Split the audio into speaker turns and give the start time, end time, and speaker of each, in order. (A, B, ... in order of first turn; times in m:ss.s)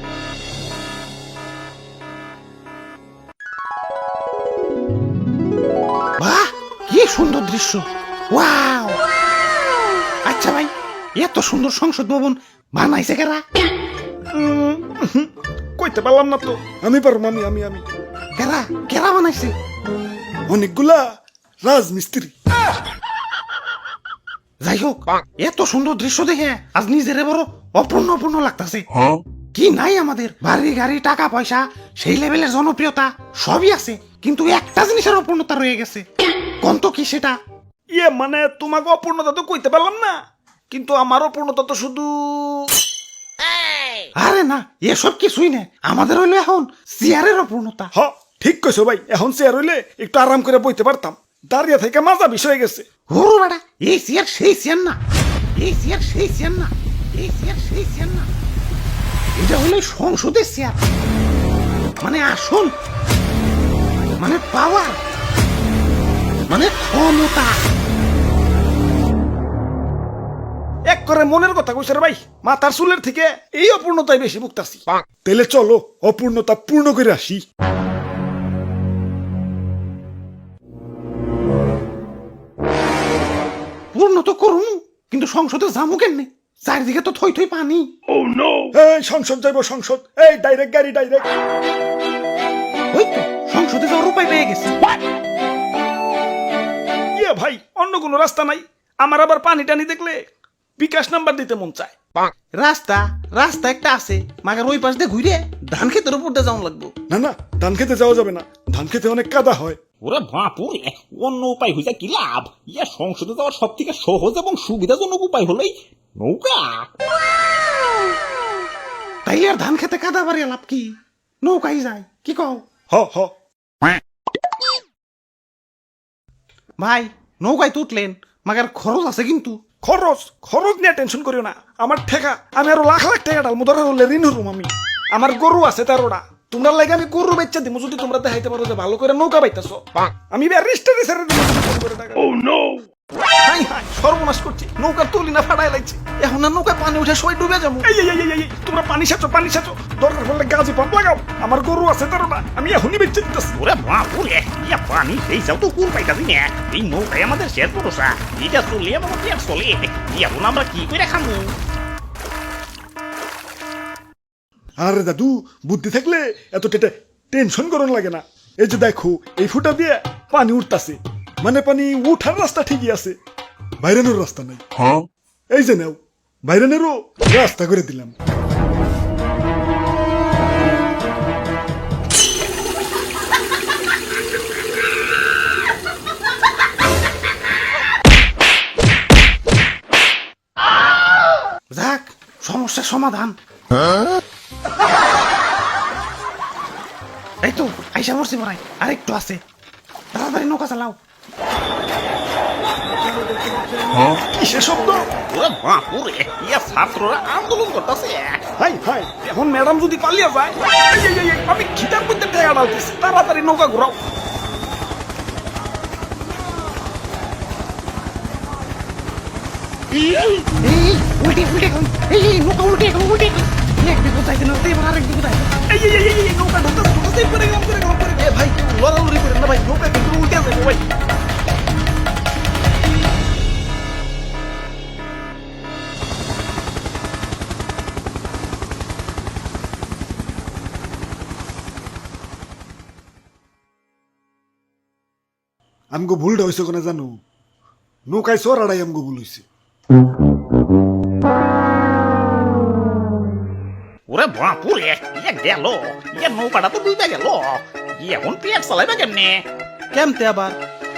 0:06.2-0:09.0 A
0:10.3-0:13.4 A
0:14.3-0:17.8 B
0:18.4-0:19.5 A
0:20.5-0:21.1 B
0:21.6-0:22.3 B
0:24.6-0:28.9 A
0:29.5-0:36.1 A
0:36.6-0:37.4 A
0:37.9-0:40.2 B
0:40.7-0:42.7 B
0:44.2-0:47.9 A
0:47.9-0:52.9 B
0:53.1-0:55.0 A
0:55.6-0:58.3 A
0:59.4-1:00.8 A
1:02.0-1:02.7 A
1:04.2-1:05.0 A
1:06.5-1:07.6 A
1:10.9-1:17.4 B
1:23.9-1:27.9 A
1:28.7-1:31.3 B
1:32.9-1:34.7 A
1:37.2-1:40.2 B
1:40.8-1:41.9 B
1:42.6-1:46.9 A
1:47.1-1:49.8 B
1:50.0-1:56.9 C
1:59.3-2:02.6 A
2:02.9-2:03.3 B
2:06.8-2:09.6 A
2:09.8-2:22.4 B
2:23.4-2:33.6 B
2:33.6-2:41.5 C
2:44.8-2:53.2 B
2:53.8-2:54.6 B
2:55.5-2:58.1 B
3:11.7-3:13.4 A
3:17.4-3:19.4 A
3:20.1-3:21.0 A
3:23.4-3:25.1 B
3:25.3-3:28.4 C
3:28.6-3:34.0 B
3:40.6-3:45.6 A
3:45.7-3:50.8 B
4:05.9-4:07.1 B
4:08.1-4:09.4 B
4:14.1-4:19.4 C
4:19.9-4:20.6 A